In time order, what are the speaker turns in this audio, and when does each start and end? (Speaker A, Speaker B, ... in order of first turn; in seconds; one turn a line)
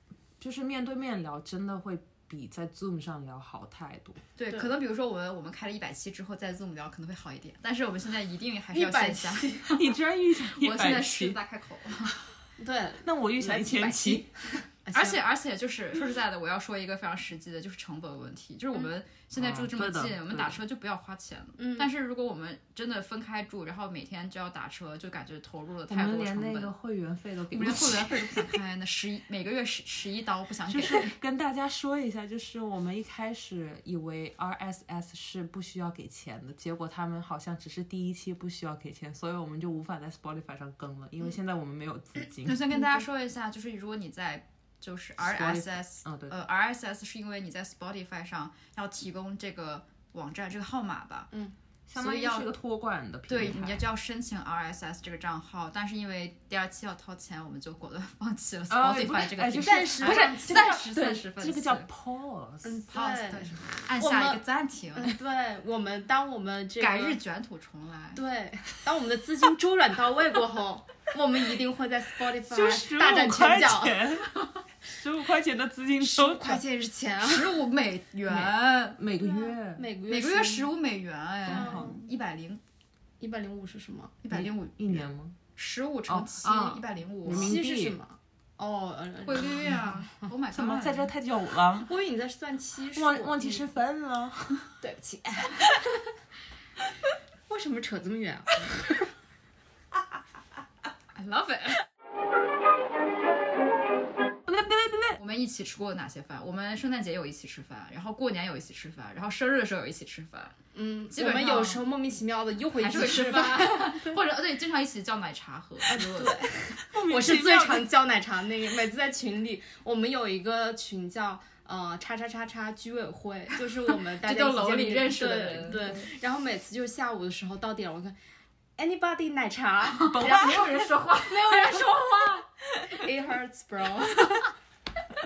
Speaker A: 0.4-4.2
Speaker B: 4.4-9.8
Speaker C: 8.7-9.9
Speaker A: 9.7-11.4
Speaker B: 10.5-12.1
Speaker A: 12.1-12.3
Speaker C: 12.6-15.2
Speaker A: 13.0-14.3
Speaker B: 14.9-26.7
Speaker A: 19.4-20.6
Speaker C: 21.6-21.9
Speaker A: 25.9-28.6
Speaker B: 27.5-31.1
Speaker A: 30.7-42.6
Speaker B: 42.4-51.3
Speaker A: 45.2-46.4
Speaker A: 51.9-53.8
Speaker B: 51.9-52.5
Speaker B: 53.3-61.9
Speaker A: 58.7-62.8
Speaker C: 59.6-60.7
Speaker C: 62.6-64.4
Speaker B: 62.9-65.1
Speaker C: 64.9-67.2
Speaker B: 66.8-68.2
Speaker C: 68.1-74.0
Speaker A: 72.5-74.3
Speaker A: 74.9-76.6
Speaker C: 76.0-77.6
Speaker B: 77.2-79.0
Speaker A: 78.3-79.9
Speaker C: 79.2-80.7
Speaker B: 80.1-82.6
Speaker A: 81.5-82.0
Speaker C: 81.5-82.0
Speaker C: 83.2-84.2
Speaker B: 84.2-87.5
Speaker A: 84.3-85.4
Speaker A: 86.1-88.0
Speaker C: 87.2-90.1
Speaker B: 89.2-91.1
Speaker A: 90.5-91.9
Speaker C: 91.8-93.7
Speaker A: 92.9-94.7
Speaker C: 94.8-96.0
Speaker C: 97.5-99.1
Speaker B: 101.1-101.8
Speaker A: 104.5-105.2
Speaker B: 105.2-110.5
Speaker C: 110.7-114.2
Speaker B: 111.1-111.8
Speaker B: 112.8-116.4
Speaker C: 115.9-128.2
Speaker A: 116.8-117.9
Speaker B: 124.1-126.0
Speaker C: 128.8-134.5
Speaker B: 129.9-132.4
Speaker A: 130.2-130.6